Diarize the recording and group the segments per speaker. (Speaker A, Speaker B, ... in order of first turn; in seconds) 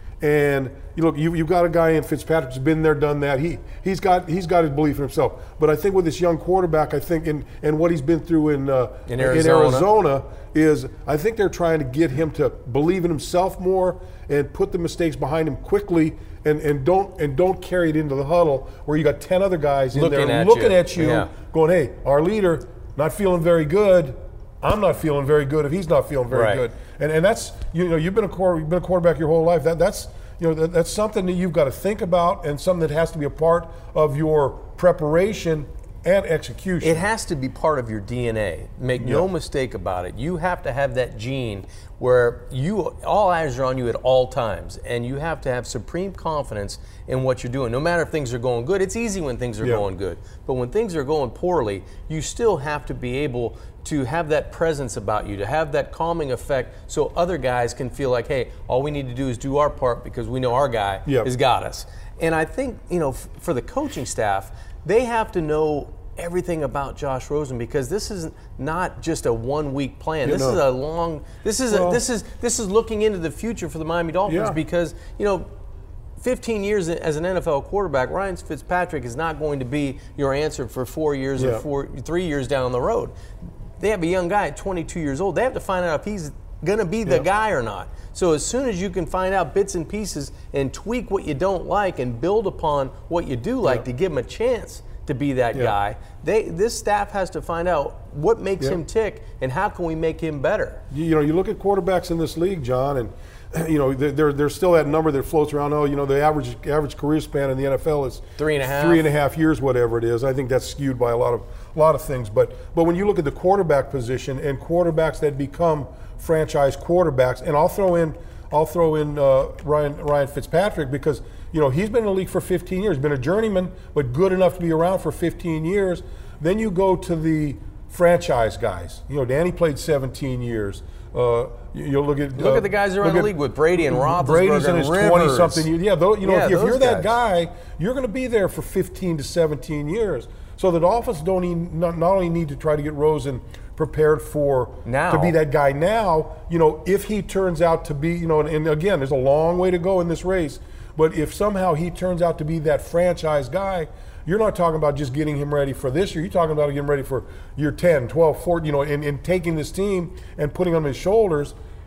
Speaker A: 0.2-37.1, 39.0-39.3, 70.2-70.6, 71.7-72.0, 74.3-74.6, 81.4-81.7, 100.9-161.6
Speaker B: 9.1-9.9, 19.9-21.3, 26.3-26.6, 36.8-75.5, 76.2-83.1, 83.8-100.8, 108.4-109.1, 132.3-135.7, 136.2-137.1, 144.8-145.4